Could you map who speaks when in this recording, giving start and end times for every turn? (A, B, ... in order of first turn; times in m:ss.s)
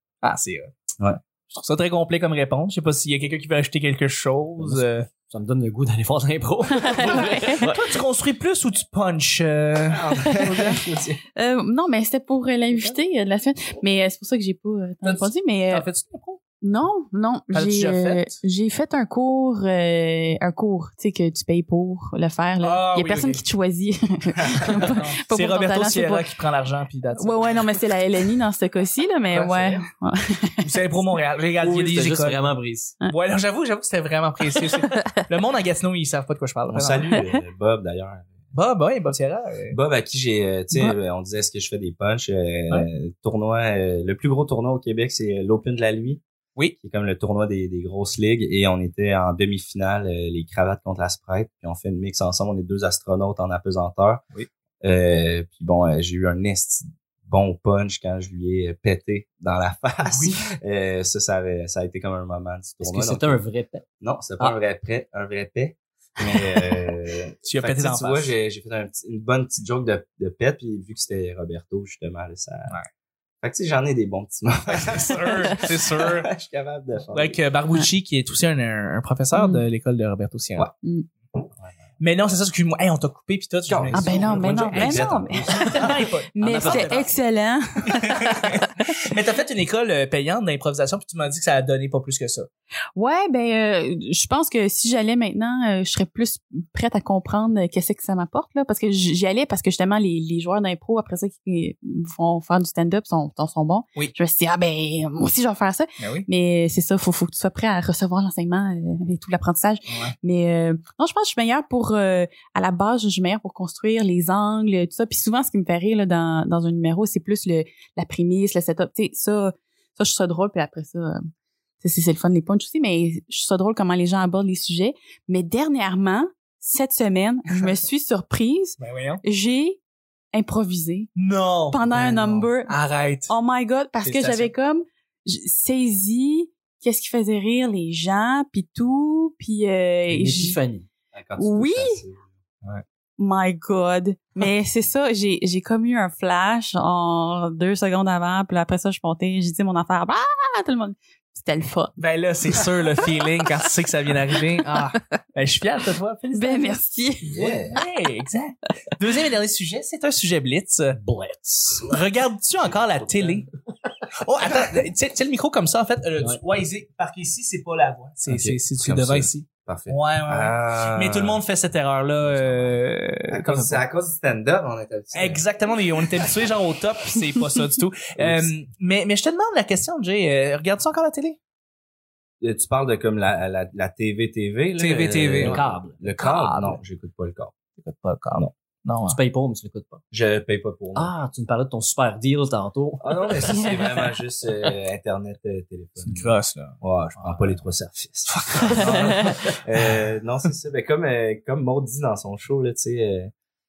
0:00.2-0:00.7 A
0:01.5-0:05.1 A
0:04.6-0:07.8 B
0:06.8-0:07.7 C
0:07.1-0:10.4 A
0:09.9-0:11.2 D
0:10.2-0:10.8 C
0:11.4-0:15.9 C
0:15.0-0:16.4 A
0:16.6-0:26.3 C
0:17.5-0:18.4 A
0:22.6-0:23.4 A
0:24.7-0:27.8 A
0:27.2-0:30.7 C
0:29.3-0:29.8 A
0:30.6-0:32.5 A
0:31.6-0:33.0 B
0:33.1-0:37.2 A
0:34.6-0:35.1 C
0:36.7-0:38.4 D
0:38.5-0:39.8 A
0:39.7-0:46.2 D
0:46.8-0:54.2 D
0:54.8-1:03.4 D
1:02.8-1:03.8 B
1:04.0-1:12.7 D
1:07.4-1:08.3 A
1:13.4-1:17.4 D
1:14.7-1:16.3 A
1:17.1-1:20.7 A
1:19.3-1:19.6 C
1:22.0-1:27.1 A
1:23.7-1:25.9 D
1:23.9-1:28.6 C
1:26.4-1:27.1 B
1:27.9-1:32.5 A
1:33.0-2:01.3 C
1:46.0-1:46.3 A
1:49.9-1:50.1 A
2:01.8-2:09.8 C
2:08.8-2:09.2 A
2:10.3-2:11.1 C
2:11.2-2:13.3 A
2:11.7-2:12.8 C
2:13.3-2:20.6 C
2:14.0-2:14.5 A
2:20.1-2:20.9 B
2:21.1-2:22.3 D
2:21.4-2:22.0 C
2:23.2-2:32.0 C
2:32.0-2:36.8 A
2:32.5-2:33.4 C
2:36.4-2:37.3 C
2:37.3-2:37.8 D
2:37.4-2:41.0 A
2:40.9-2:41.9 B
2:41.8-2:43.5 A
2:42.6-2:43.4 D
2:44.2-2:53.8 A
2:48.3-2:51.4 D
2:52.2-2:52.8 D
2:53.3-2:55.5 D
2:55.1-3:01.4 A
2:56.1-2:56.5 D
2:58.2-2:58.5 D
3:02.4-3:07.5 D
3:04.8-3:05.6 A
3:05.4-3:06.0 B
3:06.2-3:06.8 A
3:07.8-3:09.2 A
3:09.0-3:10.0 B
3:10.1-3:11.1 D
3:11.0-3:13.7 B
3:13.0-3:16.3 D
3:13.5-3:13.9 C
3:16.0-3:16.8 A
3:16.8-3:23.3 D
3:18.3-3:19.4 A
3:19.0-3:19.3 C